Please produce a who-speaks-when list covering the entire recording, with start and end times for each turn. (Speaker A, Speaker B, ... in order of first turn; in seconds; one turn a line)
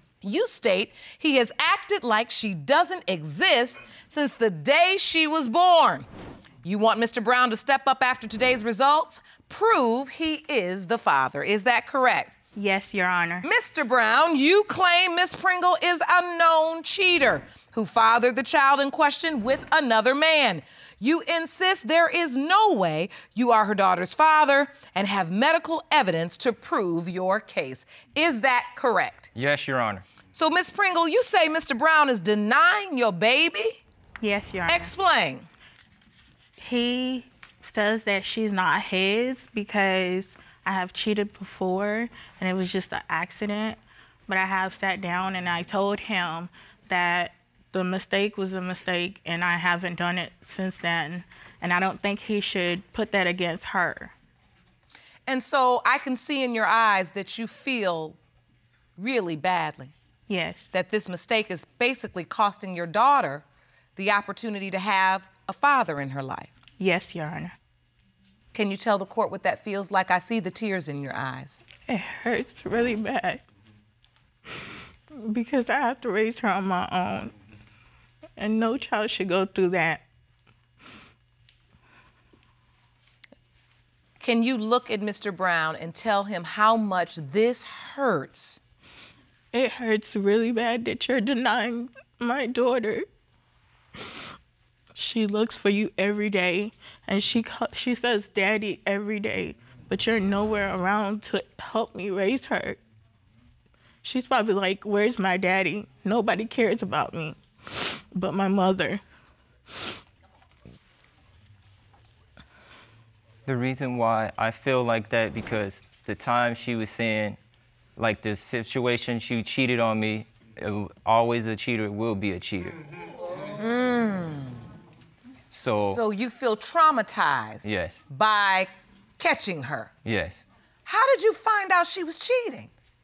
Speaker A: 0.2-6.1
Speaker A: 6.6-12.3
Speaker B: 12.6-13.4
Speaker A: 13.4-29.3
Speaker C: 29.3-30.0
Speaker A: 30.3-33.8
Speaker B: 34.2-34.9
Speaker A: 34.7-35.5
Speaker B: 36.6-54.1
Speaker A: 55.3-58.2
Speaker A: 59.0-59.9
Speaker B: 60.3-60.7
Speaker A: 60.7-63.4
Speaker A: 64.0-66.5
Speaker B: 66.8-67.5
Speaker A: 68.5-71.6
Speaker B: 71.9-73.4
Speaker B: 75.2-77.3
Speaker B: 78.4-80.0
Speaker A: 84.2-88.6
Speaker B: 89.5-93.0
Speaker B: 94.9-102.8
Speaker B: 104.0-109.0
Speaker C: 113.5-117.4
Speaker C: 118.0-122.8
Speaker A: 123.6-124.6
Speaker C: 125.5-126.0
Speaker A: 125.7-129.9
Speaker C: 127.6-128.0
Speaker C: 130.0-130.4
Speaker A: 130.8-132.7